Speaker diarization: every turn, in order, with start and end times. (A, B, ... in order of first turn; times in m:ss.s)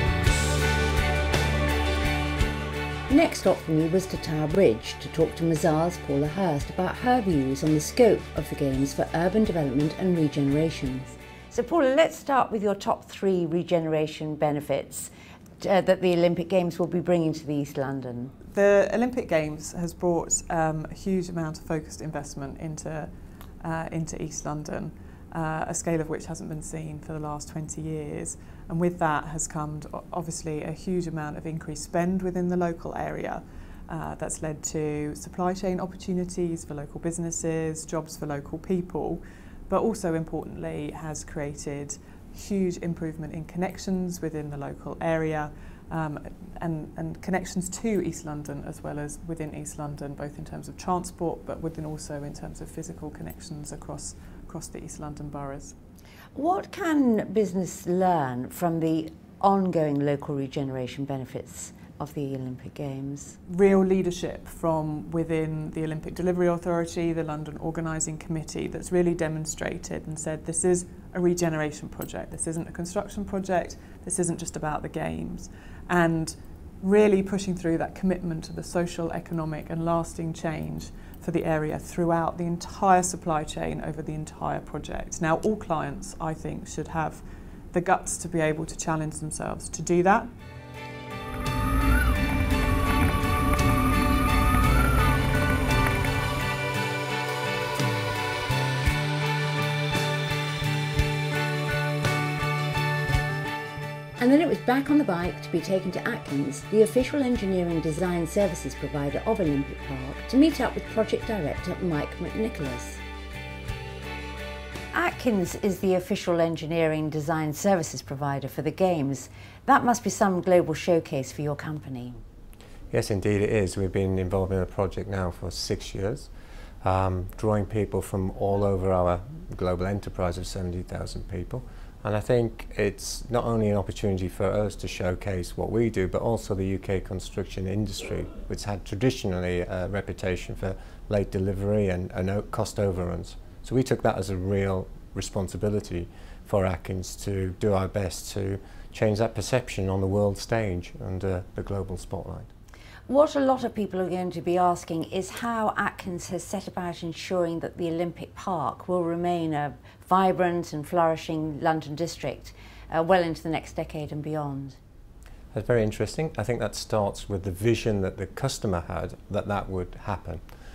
0:03.1-0:18.3 A
0:18.5-0:55.8 B
0:56.4-1:03.4 A
1:03.5-1:30.3 B
1:44.2-1:53.0 A
1:54.9-2:02.2 A
2:02.9-2:06.3 C
2:06.8-2:32.5 C
2:33.1-2:44.8 A
2:45.5-2:50.4 C